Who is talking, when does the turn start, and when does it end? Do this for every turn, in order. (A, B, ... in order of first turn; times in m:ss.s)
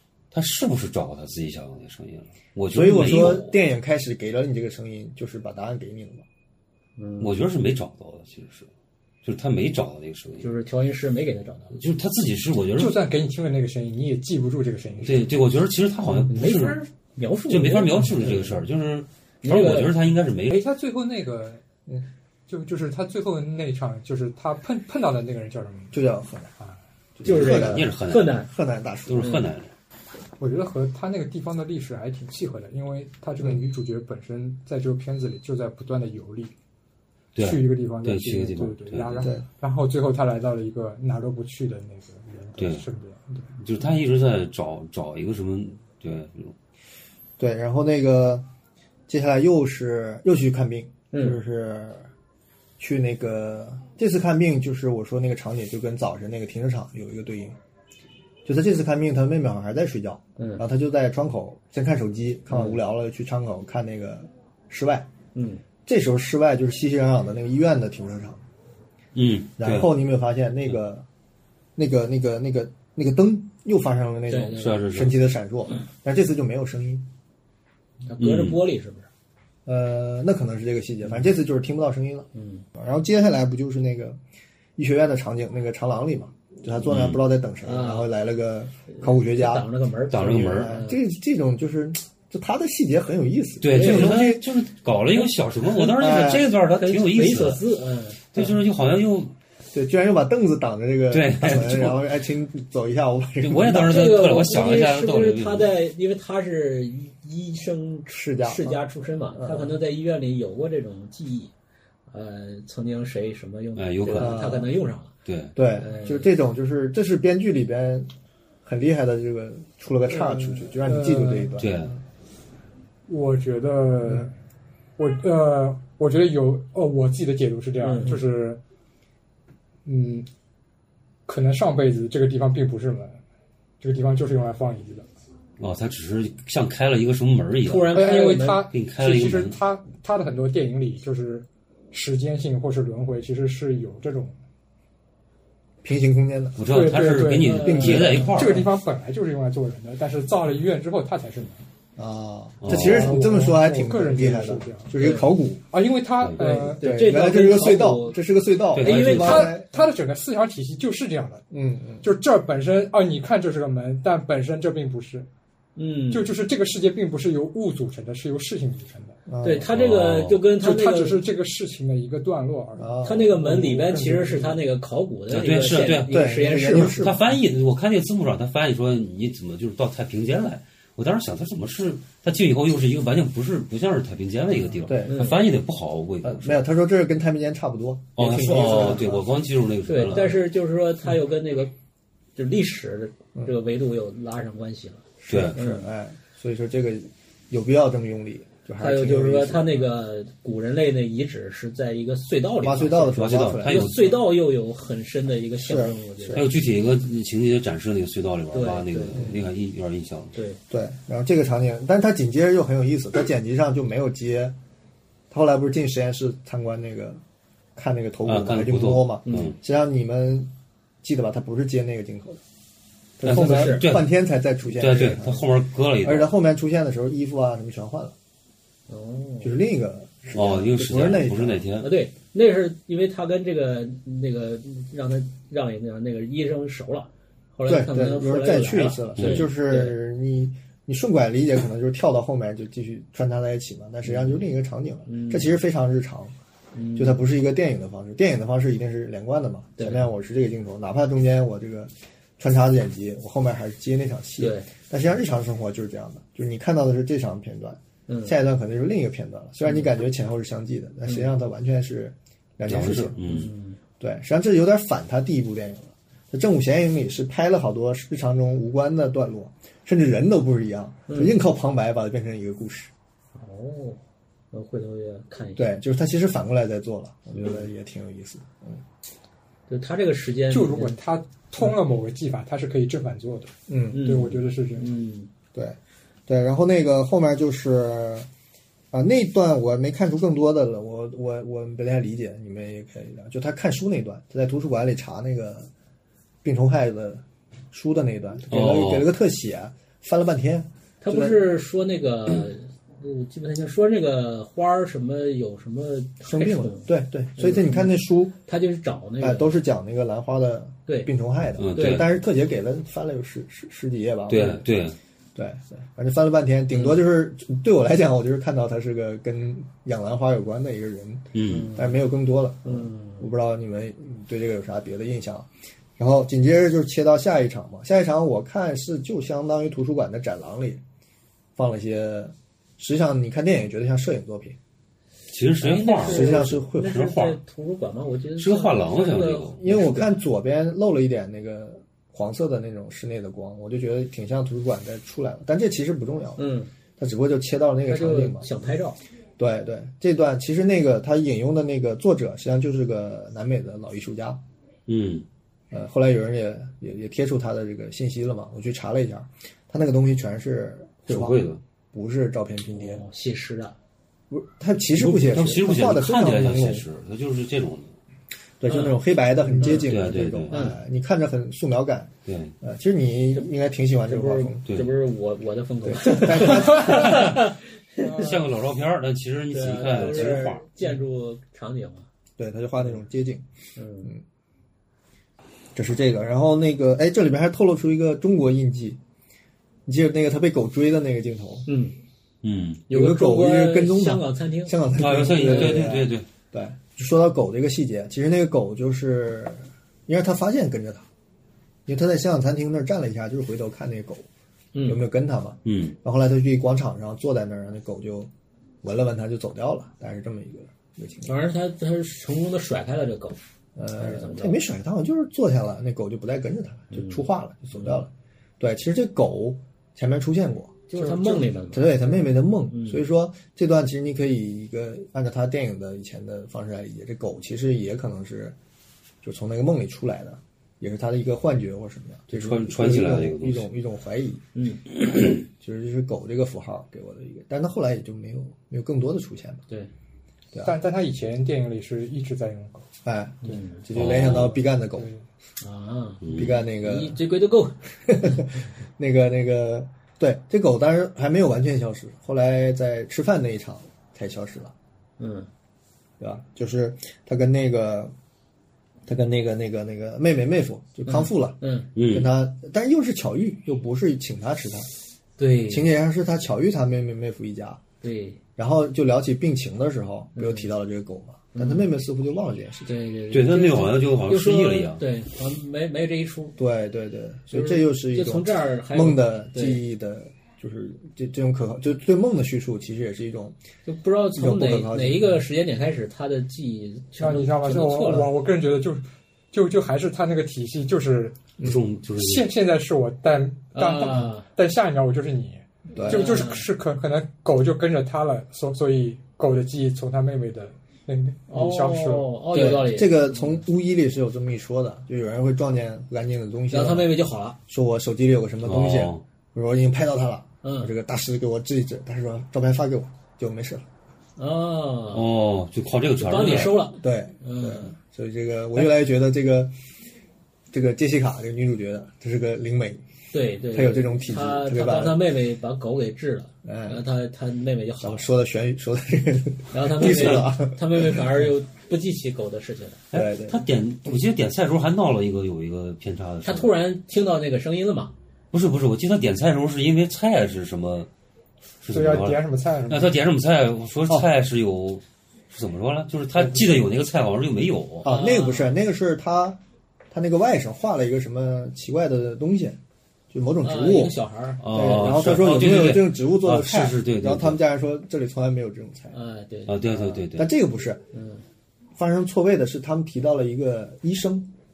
0:00.3-0:03.5 A
0:02.7-0:06.2 B
0:07.0-0:07.4 C
0:07.2-0:08.7 A
0:09.2-0:10.5 A
0:10.4-0:11.8 C
0:11.8-0:13.0 A
0:12.8-0:15.3 D
0:15.0-0:16.8 A
0:16.3-0:18.4 C
0:17.5-0:20.5 A
0:19.4-0:19.9 C
0:20.5-0:21.6 D
0:22.5-0:26.0 D
0:25.9-0:26.5 B
0:27.2-0:29.3 B
0:27.2-0:28.3 A
0:27.2-0:28.5 C
0:29.1-0:29.7 A
0:29.2-0:29.5 C
0:30.4-0:36.5 D
0:37.4-0:39.3 A
0:37.4-0:43.5 D
0:42.6-0:42.8 A
0:43.6-0:46.6 A
0:47.4-0:48.5 B
0:49.1-0:52.1 B
0:51.1-0:51.4 C
0:52.8-0:57.6 B
0:58.4-1:05.1 B
1:00.4-1:00.6 C
1:02.5-1:02.8 C
1:05.4-1:05.6 C
1:05.9-1:08.4 B
1:09.2-1:09.9 A
1:09.6-1:11.1 B
1:11.8-1:17.1 B
1:14.3-1:14.8 C
1:14.6-1:15.2 A
1:18.1-1:19.1 C
1:18.2-1:18.6 A
1:19.7-1:24.2 B
1:22.3-1:22.6 C
1:24.8-1:34.5 B
1:26.9-1:27.2 A
1:27.6-1:28.1 C
1:28.9-1:31.0 C
1:30.1-1:30.8 A
1:33.6-1:37.6 A
1:33.7-1:34.2 C
1:35.9-1:36.5 B
1:36.7-1:38.2 C
1:38.3-1:39.3 A
1:39.7-1:44.3 B
1:41.1-1:42.0 A
1:43.4-1:45.7 A
1:43.8-1:51.5 C
1:48.1-1:49.8 B
1:52.1-1:55.1 C
1:53.8-1:54.4 A
1:54.2-1:54.7 B
1:55.2-1:55.6 A
1:55.6-1:58.1 B
1:55.8-1:56.3 C
1:58.6-2:01.9 B
2:00.2-2:01.6 D
2:01.6-2:02.0 A
2:03.1-2:04.3 D
2:04.0-2:04.3 B
2:05.0-2:08.6 D
2:07.8-2:08.2 C
2:09.8-2:10.3 D
2:11.3-2:13.2 D
2:13.8-2:15.1 D
2:15.6-2:17.9 A
2:17.6-2:18.7 C
2:17.9-2:24.4 D
2:18.7-2:19.6 A
2:25.8-2:26.6 B
2:26.6-2:28.7 A
2:26.7-2:31.6 D
2:27.4-2:28.5 C
2:27.6-2:28.3 B
2:32.0-2:35.6 B
2:32.6-2:33.1 A
2:32.7-2:35.0 D
2:35.0-2:35.3 C
2:35.7-2:36.8 D
2:36.4-2:38.2 C
2:36.8-2:39.7 B
2:38.8-2:39.4 A
2:38.8-2:39.5 C
2:39.0-2:41.4 D
2:41.5-2:42.1 B
2:42.0-2:45.3 D
2:45.8-2:46.3 C
2:46.1-2:49.2 D
2:49.3-2:49.7 B
2:49.4-2:51.2 C
2:49.7-2:50.4 A
2:50.5-2:54.6 D
2:52.8-2:53.3 B
2:53.0-2:57.0 C
2:55.3-3:06.6 A
2:56.1-2:57.3 B
3:04.8-3:05.2 B
3:05.1-3:05.4 C
3:06.2-3:09.3 B
3:08.2-3:10.4 A
3:09.9-3:11.7 C
3:12.4-3:15.9 C
3:15.2-3:19.9 B
3:15.3-3:15.6 A
3:18.8-3:26.5 C
3:22.6-3:24.0 B
3:23.1-3:24.3 A
3:25.6-3:26.4 B
3:26.3-3:30.4 A
3:28.5-3:29.3 C
3:29.1-3:29.4 B
3:30.3-3:30.6 C
3:30.7-3:34.6 B
3:35.3-3:37.2 B
3:37.8-3:40.5 B
3:38.3-3:39.6 A
3:39.3-3:39.6 C
3:41.0-3:42.4 B
3:43.2-3:45.5 B
3:43.2-3:44.1 A
3:43.3-3:43.9 C
3:44.6-3:46.3 A
3:46.0-3:48.2 B
3:48.9-3:49.5 C
3:49.4-3:51.6 B
3:50.3-3:51.9 A
3:51.8-4:00.0 C
3:57.7-4:06.4 B
3:59.2-3:59.5 A
4:04.0-4:04.4 C
4:05.1-4:05.6 C
4:06.8-4:07.2 C
4:07.0-4:23.2 B
4:09.8-4:10.1 C
4:14.4-4:14.7 C
4:18.1-4:18.4 C
4:21.1-4:21.3 C
4:22.7-4:23.5 A
4:23.2-4:23.8 C
4:24.0-4:32.9 B
4:31.1-4:31.4 C
4:33.4-4:34.0 C
4:34.5-4:35.7 C
4:35.6-4:38.8 B
4:39.7-4:41.0 C
4:40.5-4:44.9 D
4:43.7-4:44.1 B
4:43.9-4:45.3 C
4:45.6-4:48.3 B
4:48.9-4:55.7 B
4:56.4-5:01.5 B
4:58.5-4:59.1 A
5:01.0-5:09.6 C
5:06.2-5:08.4 B
5:09.2-5:14.7 B
5:11.6-5:12.1 A
5:11.8-5:12.0 C
5:14.3-5:15.0 A
5:15.4-5:30.8 B
5:16.7-5:17.0 C
5:21.4-5:21.7 A
5:21.5-5:22.0 C
5:22.6-5:23.3 C
5:31.6-5:34.6 B
5:35.3-5:37.4 A
5:35.6-5:40.2 C
5:36.0-5:37.0 B
5:38.4-5:39.6 A
5:39.6-5:46.4 B
5:46.4-5:46.7 C
5:47.0-5:48.5 B
5:47.9-5:49.0 C
5:49.4-5:54.4 B
5:54.9-5:55.2 A
5:55.7-6:03.0 B
6:01.1-6:01.6 A
6:02.7-6:03.8 C
6:04.3-6:06.8 B
6:05.0-6:07.9 A
6:08.6-6:14.8 B
6:08.7-6:09.0 C
6:09.6-6:09.8 C
6:09.7-6:10.6 A
6:10.5-6:10.8 C
6:12.3-6:12.6 A
6:14.1-6:18.4 C
6:15.8-6:17.2 B
6:18.1-6:20.7 A
6:19.5-6:22.1 C
6:19.8-6:20.6 B
6:22.4-6:23.5 B
6:23.8-6:24.1 C
6:25.8-6:29.0 B
6:29.9-6:31.7 B
6:31.7-6:32.0 C
6:32.4-6:32.8 A
6:32.9-6:34.8 C
6:32.9-6:41.1 B
6:35.0-6:36.3 A
6:35.3-6:36.0 C
6:41.9-6:44.3 B
6:44.7-6:45.0 C
6:44.8-6:48.3 B
6:45.6-6:46.0 A
6:48.8-6:51.4 B
6:51.3-6:53.4 C
6:53.8-7:08.6 B
6:54.0-6:54.6 C
6:56.9-6:58.0 C
7:00.9-7:03.0 C
7:09.2-7:14.4 B
7:12.3-7:13.7 A
7:14.6-7:14.8 C
7:15.3-7:19.6 B
7:20.6-7:22.9 D
7:23.0-7:25.1 B
7:23.4-7:23.8 C
7:23.9-7:24.6 A
7:25.6-7:27.8 C
7:26.2-7:26.6 A
7:26.3-7:27.2 B
7:28.1-7:34.7 B
7:35.2-7:35.5 C
7:36.2-7:38.1 B
7:39.1-7:44.9 B
7:41.1-7:41.9 C
7:42.0-7:42.3 A
7:45.4-7:45.9 C
7:45.7-7:47.8 B
7:48.0-7:48.4 C
7:48.6-7:52.9 B
7:50.4-7:50.7 C
7:51.5-7:51.9 C
7:52.8-7:56.6 C
7:53.3-7:55.0 A
7:56.6-8:03.6 B
7:57.5-7:59.8 C
8:03.9-8:08.3 C
8:04.4-8:05.4 B
8:07.2-8:11.6 D
8:11.6-8:12.5 A
8:12.1-8:22.3 D
8:13.7-8:14.5 C
8:16.0-8:16.2 B
8:16.0-8:16.7 C
8:21.5-8:23.5 C
8:22.5-8:27.2 B
8:26.7-8:27.6 C
8:27.7-8:33.8 B
8:28.6-8:29.2 A
8:30.6-8:30.9 C
8:34.4-8:35.3 C
8:35.1-8:36.8 A
8:36.2-8:37.9 C
8:36.4-8:39.7 B
8:40.7-8:43.0 B
8:43.3-8:48.3 C
8:43.7-8:45.2 B
8:46.6-8:47.0 B
8:48.0-8:51.4 B
8:49.7-8:53.0 C
8:50.0-8:50.5 A
8:53.1-8:56.7 A
8:53.1-8:54.2 B
8:56.4-8:58.1 C
8:58.5-9:01.1 A
9:01.8-9:08.1 A
9:01.9-9:03.2 D
9:08.0-9:09.6 B
9:08.0-9:08.8 C
9:10.1-9:12.8 B
9:13.3-9:14.2 B
9:13.6-9:14.6 C
9:14.6-9:17.6 A
9:14.7-9:19.2 B
9:19.1-9:20.2 C
9:19.7-9:20.5 A
9:20.3-9:21.0 B
9:21.1-9:21.4 C
9:22.0-9:24.5 B